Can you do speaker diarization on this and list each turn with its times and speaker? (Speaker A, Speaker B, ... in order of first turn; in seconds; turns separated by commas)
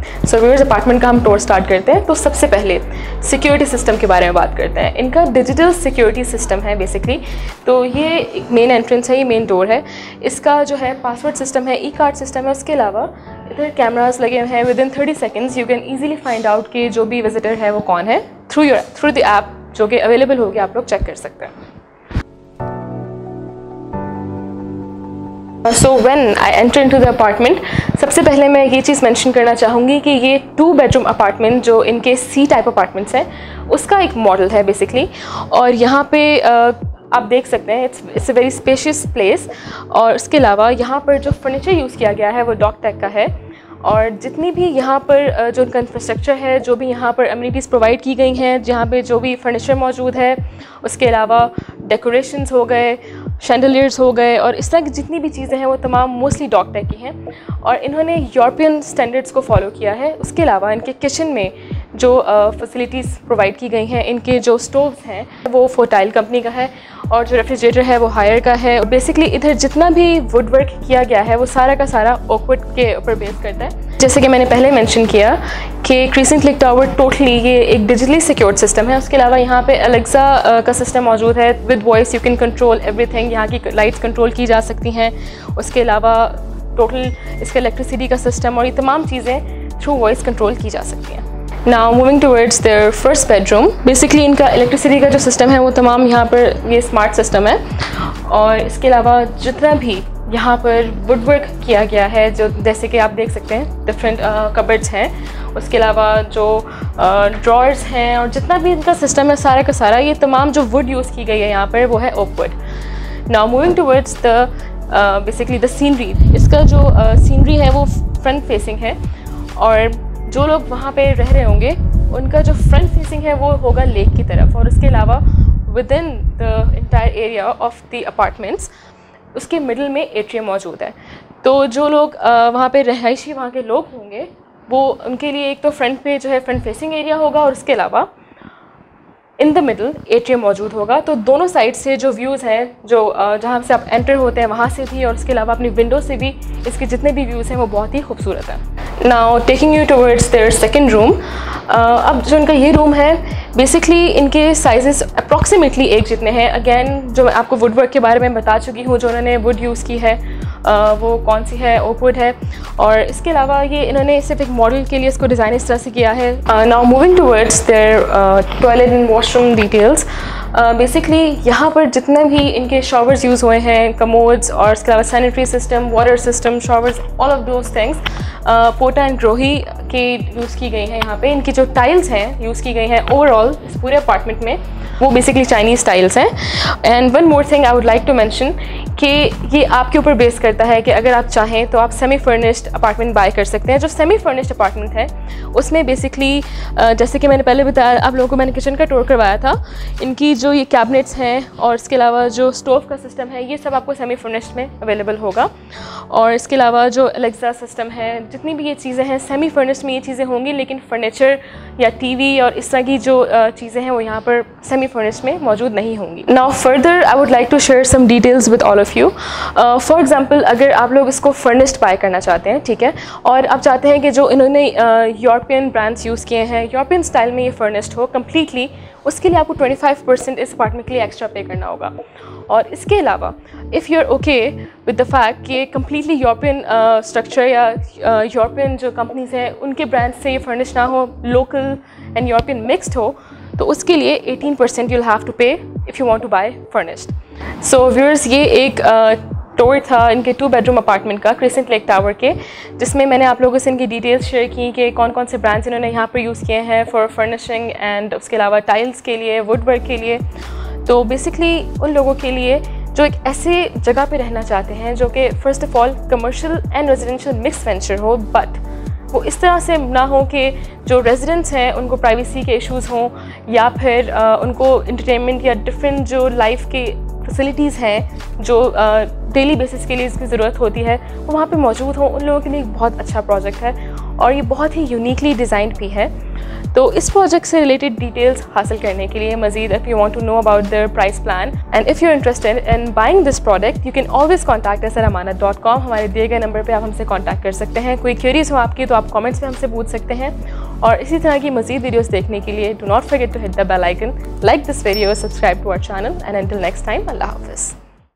Speaker A: 0.2-21.5, Speaker A: 25.6-112.6, Speaker A: 113.3-119.0, Speaker A: 119.5-128.7, Speaker A: 129.3-138.1, Speaker A: 139.4-205.5, Speaker A: 206.1-231.9, Speaker A: 232.5-260.2, Speaker A: 260.8-286.1, Speaker A: 286.7-307.8